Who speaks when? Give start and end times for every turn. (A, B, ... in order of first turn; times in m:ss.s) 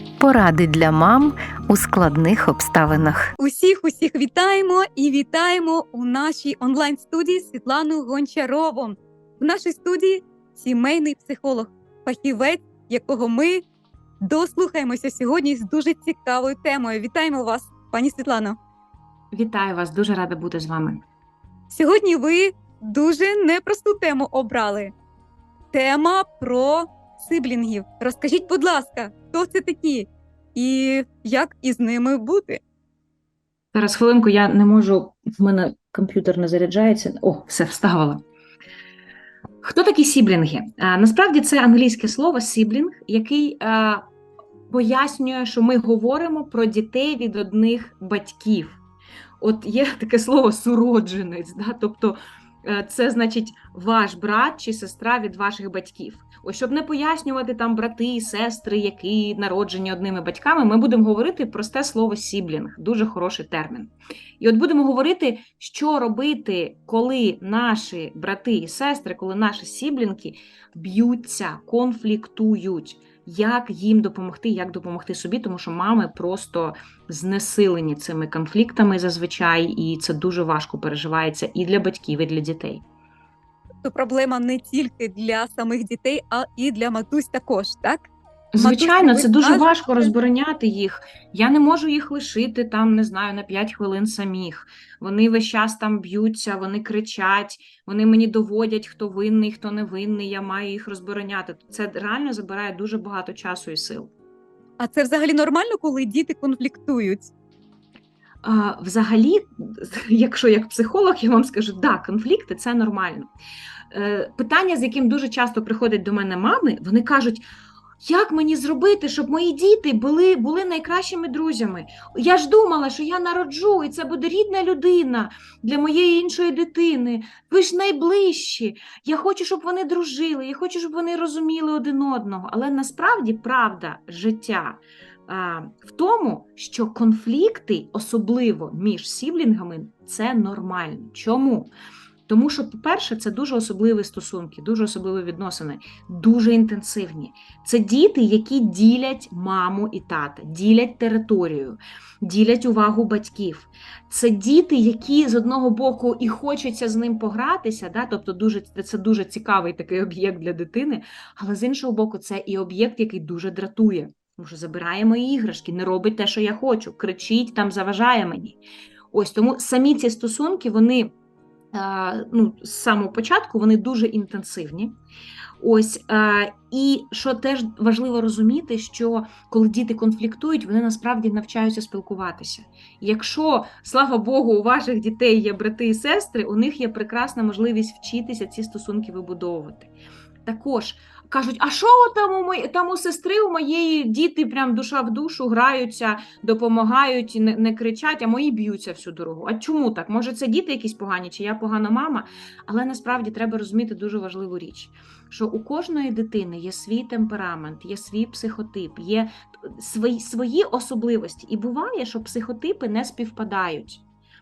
0:00.2-0:03.3 A
0:03.4-0:13.6 B
0:14.2-0:18.6 B
0:19.3-0:21.0 C
0:21.7-0:24.9 B
0:25.7-0:32.6 B
0:33.7-0:38.2 C
0:39.6-0:44.0 C
0:44.7-0:48.8 C
0:49.4-1:22.8 C
1:23.8-1:30.1 B
1:28.5-1:44.1 C
1:44.8-1:47.3 B
1:48.4-1:53.3 C
1:53.9-1:57.4 C
1:58.0-2:21.7 C
2:22.3-2:48.6 C
2:49.1-2:51.1 C
2:51.7-2:55.0 C
2:55.6-3:09.9 C
3:10.4-3:34.0 C